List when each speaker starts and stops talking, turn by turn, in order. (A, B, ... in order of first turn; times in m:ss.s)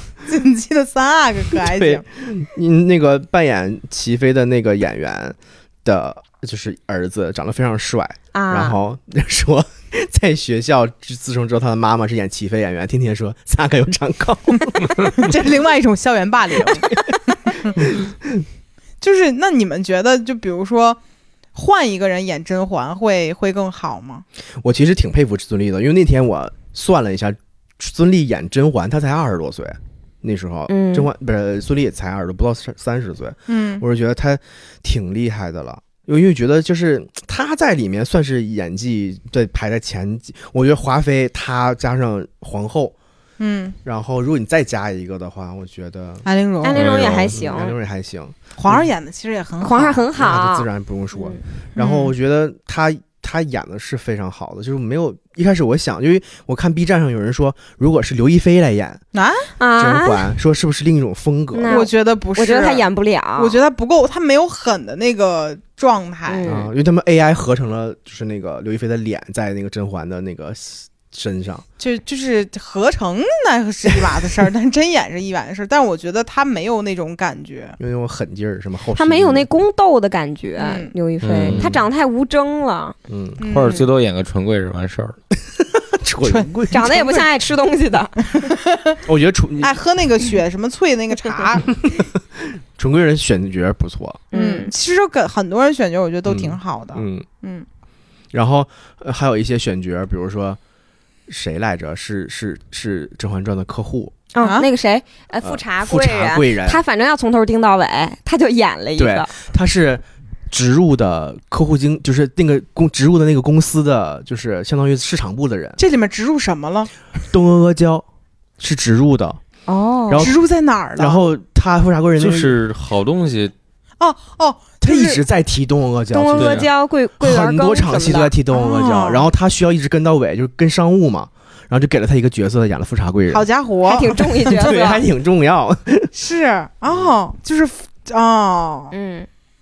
0:00.2-0:02.0 A
0:01.5-0:15.4 B
0:08.3-0:08.8 C
0:15.0-0:16.9 A
0:16.6-0:17.1 B
0:17.5-0:17.8 A
0:17.8-0:18.4 B
0:19.0-0:21.0 A
0:21.5-0:24.2 A
0:24.6-0:42.9 B
0:30.7-0:31.1 C
0:33.5-0:33.8 A
0:43.4-0:43.8 A
0:43.8-0:48.9 B
0:46.2-0:46.9 A
0:46.6-0:47.8 C
0:48.6-0:50.0 A
0:49.6-0:51.4 C
0:50.2-0:59.0 B
0:51.7-0:52.1 A
0:59.1-0:59.5 A
0:59.6-1:00.3 C
0:59.8-1:01.8 B
1:01.5-1:03.6 C
1:01.7-1:02.8 A
1:03.4-1:06.5 A
1:06.3-1:06.7 C
1:06.4-1:11.6 B
1:11.8-1:17.8 A
1:17.8-1:19.5 B
1:18.9-1:23.0 C
1:20.6-1:20.9 A
1:21.2-1:21.7 D
1:21.4-1:21.8 B
1:23.1-1:23.4 B
1:23.4-1:23.9 A
1:23.4-1:25.2 D
1:25.5-1:27.2 B
1:26.2-1:27.1 A
1:26.7-1:28.5 C
1:28.4-1:29.0 A
1:29.0-1:29.8 B
1:29.6-1:31.7 A
1:31.7-1:34.2 B
1:34.3-1:34.7 C
1:34.3-1:37.6 A
1:36.2-1:37.2 B
1:38.3-1:40.6 B
1:41.3-1:44.2 B
1:44.3-1:49.3 C
1:44.4-1:44.7 A
1:45.4-1:46.8 B
1:49.0-1:55.8 B
1:55.8-1:56.9 A
1:57.3-1:58.0 B
1:58.6-1:59.4 B
1:59.7-2:00.3 C
2:00.1-2:00.4 B
2:00.2-2:01.2 A
2:01.0-2:02.6 B
2:02.2-2:03.5 D
2:04.0-2:05.2 A
2:04.8-2:13.4 B
2:06.1-2:08.3 C
2:06.4-2:06.7 D
2:08.5-2:09.3 A
2:13.3-2:14.2 A
2:13.8-2:15.0 C
2:14.1-2:16.1 B
2:16.1-2:18.9 A
2:16.9-2:17.2 B
2:18.9-2:19.3 C